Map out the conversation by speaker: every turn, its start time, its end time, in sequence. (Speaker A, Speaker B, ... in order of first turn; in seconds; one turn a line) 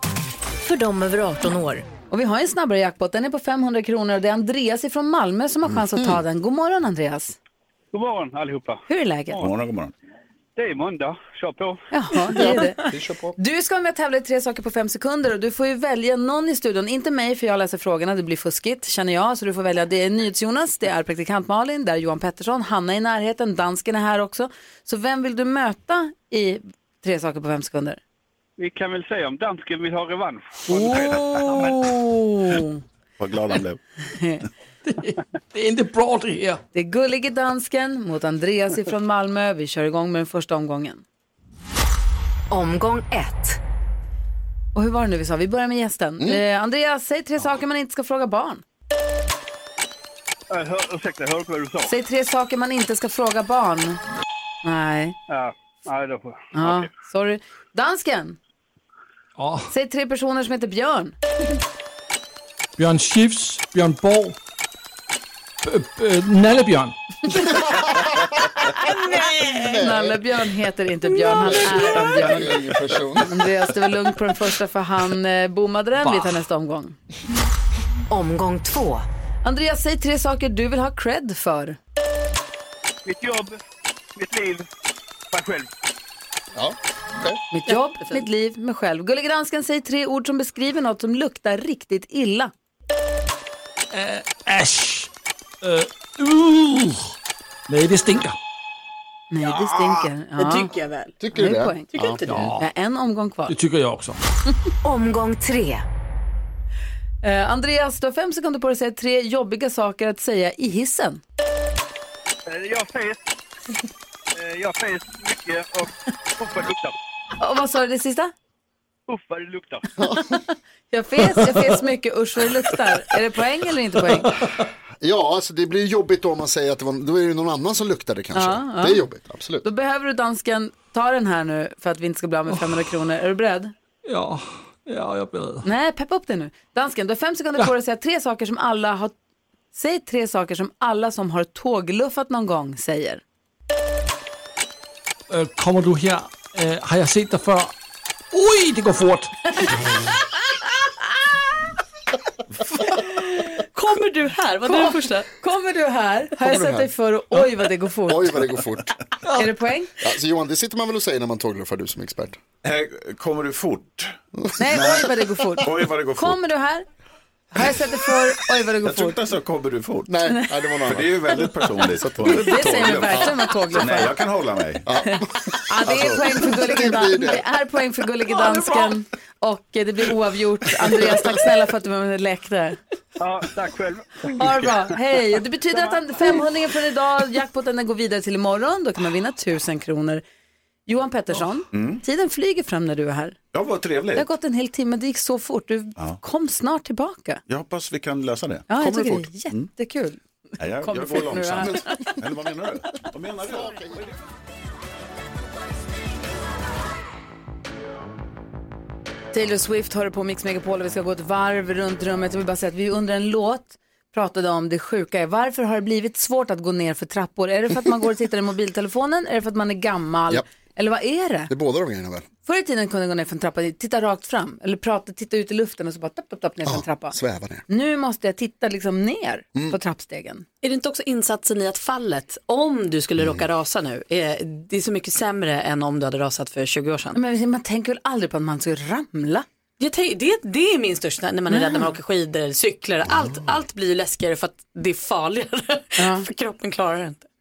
Speaker A: 0.6-1.9
Speaker B: 2.1-7.4
Speaker C: 5.9-6.2
Speaker D: 7.9-9.5
Speaker B: 8.9-9.4
Speaker E: 9.4-9.9
Speaker D: 10.6-11.9
Speaker B: 11.9-28.0
Speaker C: 12.3-13.3
Speaker D: 28.6-32.0
Speaker B: 30.7-32.8
Speaker E: 33.2-33.8
Speaker B: 34.1-34.4
Speaker F: 34.9-36.6
Speaker B: 36.7-41.0
Speaker A: 42.5-43.6
Speaker B: 44.7-48.6
Speaker D: 50.5-51.9
Speaker B: 51.9-54.0
Speaker B: 54.6-55.2
Speaker D: 55.3-56.9
Speaker B: 56.5-58.4
Speaker F: 59.4-59.7
Speaker B: 59.7-61.1
Speaker F: 62.8-64.4
Speaker F: 65.6-67.4
Speaker B: 68.8-72.7
Speaker C: 69.6-70.2
Speaker C: 71.4-73.5
Speaker B: 73.2-77.0
Speaker A: 78.1-79.0
Speaker B: 79.4-81.8
Speaker D: 83.0-83.6
Speaker D: 84.2-84.7
Speaker D: 85.3-85.7
Speaker C: 86.5-87.4
Speaker B: 87.5-92.5
Speaker G: 87.7-88.2
Speaker F: 93.9-95.1
Speaker F: 95.6-97.1
Speaker F: 97.7-98.4
Speaker B: 99.3-100.7
Speaker G: 99.4-101.2
Speaker C: 101.2-102.2
Speaker B: 101.3-101.9
Speaker G: 101.9-102.5
Speaker F: 102.3-102.7
Speaker B: 102.6-103.6
Speaker F: 103.5-104.2
Speaker A: 104.8-105.8
Speaker B: 107.2-111.2
Speaker D: 112.5-113.2
Speaker D: 114.3-117.0
Speaker B: 117.4-118.3
Speaker D: 119.1-119.9
Speaker C: 120.0-120.4
Speaker B: 120.1-124.4
Speaker C: 125.0-129.7
Speaker B: 128.3-129.0
Speaker B: 129.6-133.7
Speaker F: 134.1-135.7
Speaker B: 135.6-139.1
Speaker B: 139.7-143.2
Speaker F: 145.3-147.7
Speaker F: 148.3-149.9
Speaker G: 153.4-155.3
Speaker B: 154.7-158.4
Speaker C: 156.4-156.9
Speaker C: 158.1-158.9
Speaker B: 159.3-159.9
Speaker C: 160.0-162.4
Speaker E: 162.6-166.4
Speaker B: 164.6-166.8
Speaker B: 167.5-169.2
Speaker E: 168.8-170.2
Speaker C: 170.1-173.4
Speaker E: 170.8-174.9
Speaker B: 172.2-174.1
Speaker C: 174.8-177.4
Speaker B: 175.0-182.8
Speaker E: 175.9-176.2
Speaker D: 183.2-184.9
Speaker B: 184.3-190.2
Speaker B: 190.9-193.4
Speaker E: 191.7-192.0
Speaker E: 193.5-194.3
Speaker B: 194.2-197.4
Speaker E: 197.5-199.7
Speaker B: 198.7-200.2
Speaker E: 200.6-204.1
Speaker B: 200.8-202.2
Speaker C: 201.6-201.8
Speaker C: 203.5-204.1
Speaker B: 209.3-221.5
Speaker C: 221.5-222.3
Speaker B: 222.4-227.2
Speaker C: 226.7-227.6
Speaker B: 227.7-230.4
Speaker G: 230.6-237.2
Speaker C: 233.2-233.5
Speaker B: 237.1-239.5
Speaker G: 239.8-247.3
Speaker B: 241.5-241.8
Speaker B: 246.0-246.3